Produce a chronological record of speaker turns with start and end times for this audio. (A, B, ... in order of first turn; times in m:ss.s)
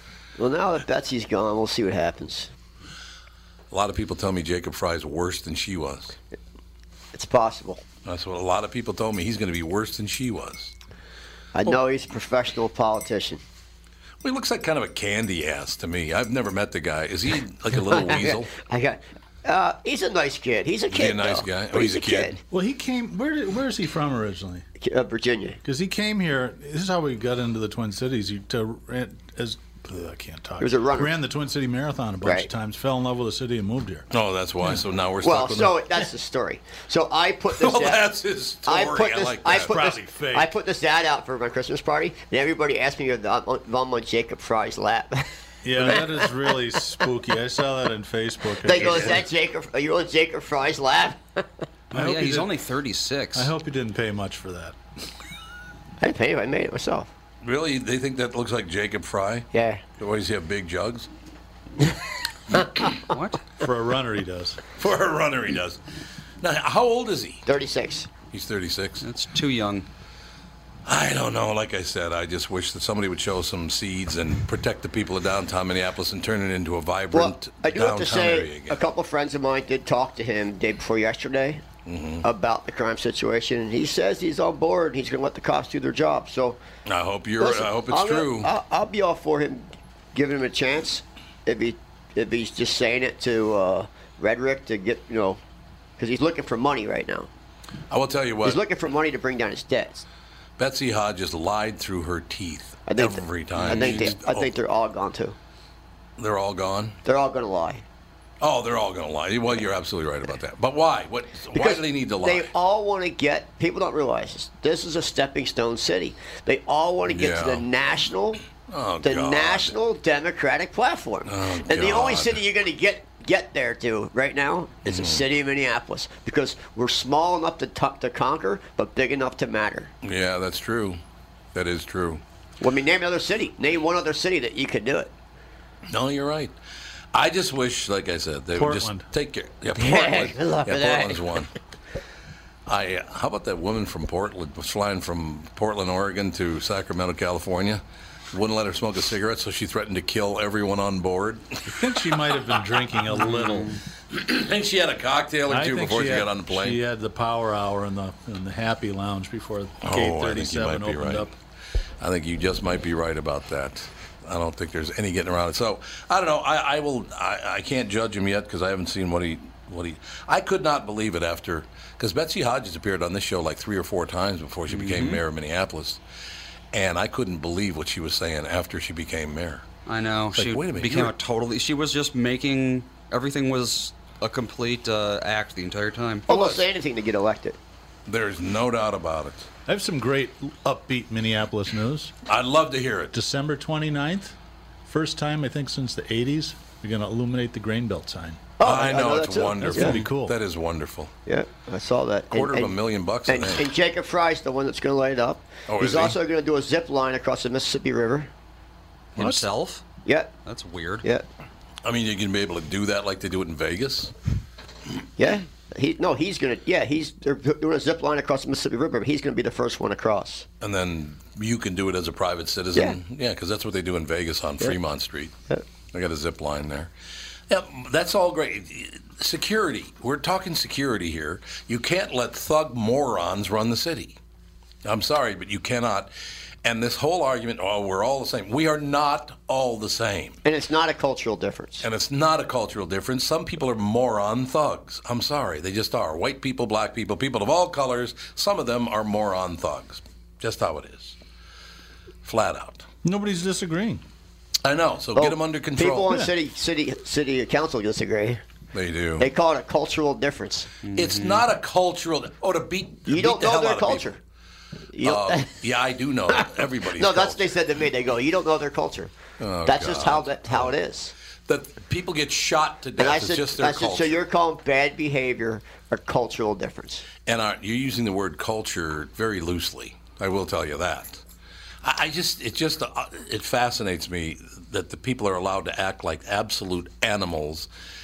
0:00.4-0:02.5 A
0:03.7-0:06.2 B
0:07.1-0:07.8 A
0:08.0-0:10.7 B
0:11.5-0:13.4 A
0:14.2-0:18.5 B
0:17.8-0:22.4 A
0:20.9-0:22.4 B
0:22.5-0:24.6 C
0:24.8-0:25.6 A
0:25.6-0:34.1 C
0:30.6-0:31.2 A
0:32.2-0:32.5 A
0:34.1-0:35.8 B
0:35.2-0:38.1 A
0:37.5-0:39.8 B
0:38.6-0:46.4 A
0:39.6-0:40.5 C
0:45.6-0:49.3 C
0:48.6-0:51.5 A
0:51.9-0:52.5 C
0:51.9-0:53.5 D
0:53.3-0:54.8 C
0:56.0-0:57.1 A
0:57.4-1:01.1 B
0:59.5-0:59.8 A
1:03.1-1:03.4 D
1:03.6-1:04.6 C
1:04.8-1:05.8 B
1:06.4-1:07.4 B
1:07.5-1:08.1 A
1:08.3-1:09.0 B
1:09.0-1:09.9 D
1:10.9-1:18.8 B
1:17.1-1:21.6 A
1:21.9-1:22.3 B
1:22.2-1:26.6 A
1:26.9-1:28.5 B
1:27.4-1:35.4 A
1:36.0-1:37.3 A
1:37.9-1:38.6 B
1:38.4-1:40.0 A
1:40.6-1:44.5 B
1:42.9-1:45.4 A
1:43.7-1:44.1 D
1:46.2-1:47.0 B
1:47.0-1:47.8 A
1:48.4-1:52.5 B
1:51.5-1:58.4 A
1:57.1-1:57.6 B
1:58.7-1:59.8 B
1:59.0-2:09.9 A
2:01.3-2:02.4 B
2:04.9-2:05.2 B
2:10.0-2:11.0 B
2:11.5-2:12.2 B
2:12.6-2:15.1 A
2:15.9-2:16.6 B
2:17.1-2:21.5 B
2:18.6-2:19.1 C
2:19.8-2:21.3 A
2:22.7-2:31.8 B
2:31.7-2:33.8 C
2:33.3-2:33.8 D
2:34.1-2:36.8 B
2:35.5-2:41.3 C
2:39.8-2:41.3 B
2:42.0-2:56.0 B
2:54.7-2:55.2 D
2:56.7-2:59.6 B
2:59.9-3:06.6 D
3:00.4-3:01.1 B
3:06.3-3:07.6 A
3:08.1-3:09.5 B
3:09.7-3:12.1 C
3:12.3-3:13.2 B
3:13.1-3:14.4 C
3:14.9-3:18.4 C
3:18.6-3:20.0 A
3:18.6-3:21.1 B
3:19.6-3:20.4 C
3:21.3-3:22.8 A
3:22.3-3:23.7 B
3:23.3-3:28.3 A
3:25.7-3:26.2 B
3:29.2-3:29.8 D
3:29.2-3:29.5 C
3:30.0-3:30.3 A
3:30.4-3:31.0 D
3:31.8-3:34.1 B
3:35.2-3:40.5 A
3:40.6-3:45.3 B
3:45.9-3:46.9 B
3:47.5-3:54.2 B
3:54.8-3:56.1 B
3:56.6-4:00.4 B
4:00.4-4:01.9 A
4:01.8-4:11.2 B
4:12.2-4:12.9 B
4:13.0-4:14.0 C
4:14.6-4:16.1 B
4:15.2-4:18.4 A
4:18.7-4:19.3 B
4:19.2-4:20.7 A
4:20.8-4:21.4 D
4:21.0-4:24.1 B
4:23.1-4:24.2 A
4:24.9-4:25.5 A
4:25.0-4:27.5 B
4:26.3-4:29.1 A
4:29.4-4:30.7 B
4:29.7-4:31.1 A
4:31.5-4:34.2 B
4:33.0-4:37.1 A
4:37.2-4:41.2 B
4:41.8-4:47.7 B